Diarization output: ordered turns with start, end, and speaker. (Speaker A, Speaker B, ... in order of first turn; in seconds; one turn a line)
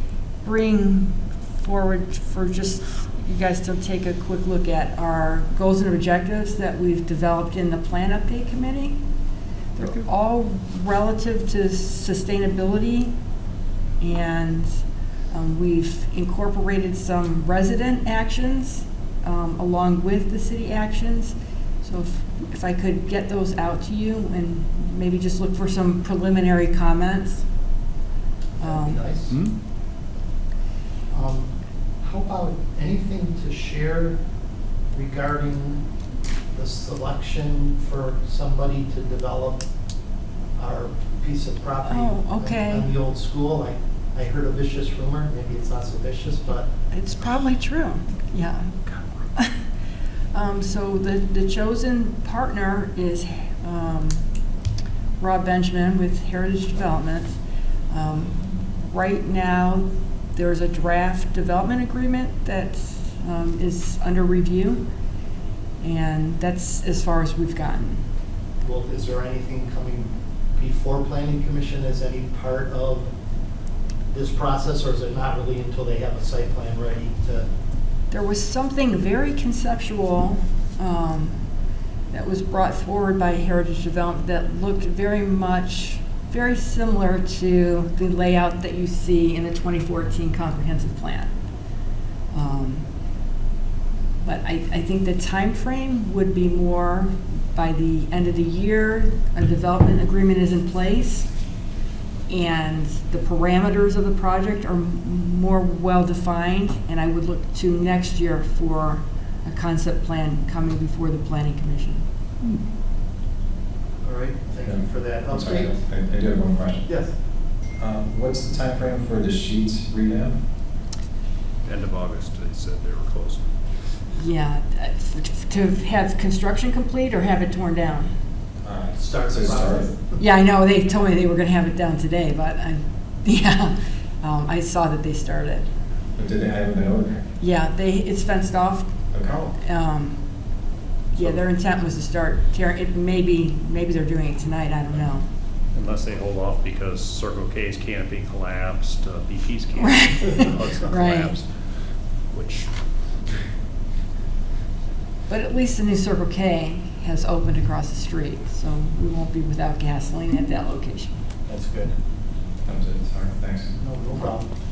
Speaker A: 0.4-9.0
Speaker A: 9.7-13.2
Speaker A: 14.0-14.7
Speaker A: 15.3-27.5
Speaker B: 28.6-29.4
Speaker A: 28.6-29.0
Speaker C: 29.3-29.6
Speaker B: 31.1-34.2
Speaker B: 34.9-35.8
Speaker B: 36.5-39.7
Speaker B: 40.6-46.7
Speaker A: 41.8-42.9
Speaker A: 46.9-49.6
Speaker A: 50.3-54.3
Speaker A: 55.2-57.4
Speaker A: 57.9-64.9
Speaker A: 65.8-68.0
Speaker B: 68.6-73.1
Speaker B: 74.1-77.5
Speaker A: 78.1-81.5
Speaker A: 82.1-91.3
Speaker A: 92.3-92.9
Speaker A: 94.2-101.3
Speaker A: 102.3-112.0
Speaker B: 114.0-115.7
Speaker D: 114.6-116.9
Speaker B: 116.9-117.1
Speaker D: 117.8-120.4
Speaker C: 121.6-123.5
Speaker A: 124.2-128.1
Speaker D: 128.6-129.9
Speaker B: 128.9-130.2
Speaker A: 130.2-135.7
Speaker D: 136.2-137.2
Speaker A: 137.4-138.9
Speaker D: 139.1-139.6
Speaker A: 139.6-140.2
Speaker A: 141.2-145.2
Speaker C: 145.7-152.7
Speaker A: 149.8-151.3
Speaker A: 155.3-161.2
Speaker B: 161.5-162.0
Speaker D: 162.6-163.8
Speaker B: 163.8-164.5